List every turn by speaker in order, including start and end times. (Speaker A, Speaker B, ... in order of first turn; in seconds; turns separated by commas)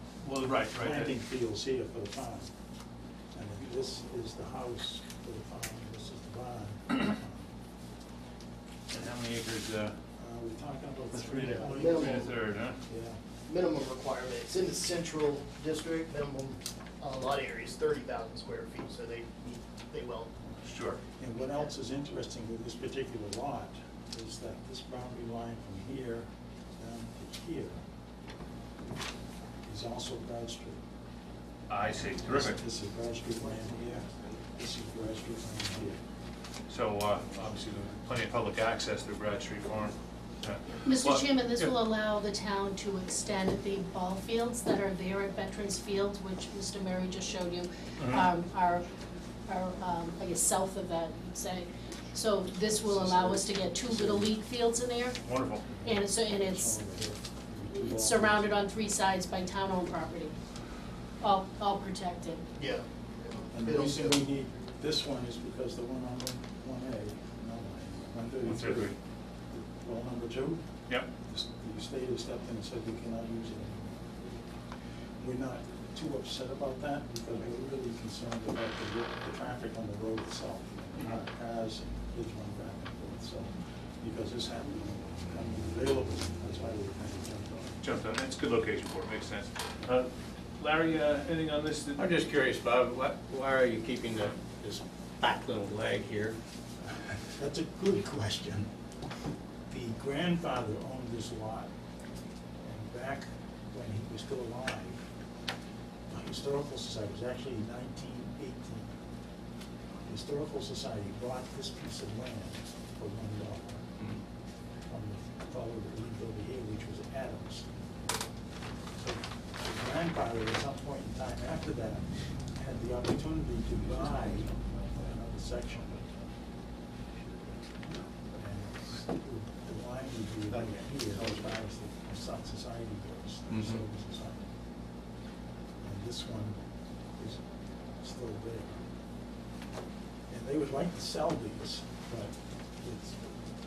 Speaker A: 0.2-1.1, Speaker B: 0.7-2.5, Speaker B: 3.3-7.5, Speaker A: 8.9-9.9, Speaker B: 10.2-12.2, Speaker A: 11.1-12.8, Speaker C: 11.3-12.4, Speaker B: 12.9-13.2, Speaker C: 13.4-20.3, Speaker A: 20.6-21.0, Speaker B: 21.2-27.8, Speaker B: 29.6-30.8, Speaker A: 31.7-32.6, Speaker B: 32.2-36.0, Speaker A: 36.7-41.7, Speaker D: 40.9-48.9, Speaker A: 48.0-48.3, Speaker D: 49.5-56.8, Speaker B: 52.6-54.3, Speaker A: 55.2-55.6, Speaker B: 55.8-58.6, Speaker D: 57.7-60.3, Speaker D: 61.2-62.4, Speaker C: 62.5-64.3, Speaker B: 63.5-69.0, Speaker A: 68.4-69.0, Speaker B: 69.5-70.6, Speaker B: 71.3-74.0, Speaker B: 75.2-87.8, Speaker A: 87.8-92.0, Speaker E: 91.9-96.4, Speaker B: 97.3-98.7, Speaker B: 99.7-101.7, Speaker B: 102.6-105.1, Speaker B: 106.1-108.9, Speaker B: 110.0-113.9, Speaker B: 114.9-117.6, Speaker B: 119.0-126.0, Speaker B: 128.3-134.5, Speaker E: 130.5-131.2, Speaker B: 135.8-136.6, Speaker B: 138.0-138.8, Speaker B: 140.3-143.4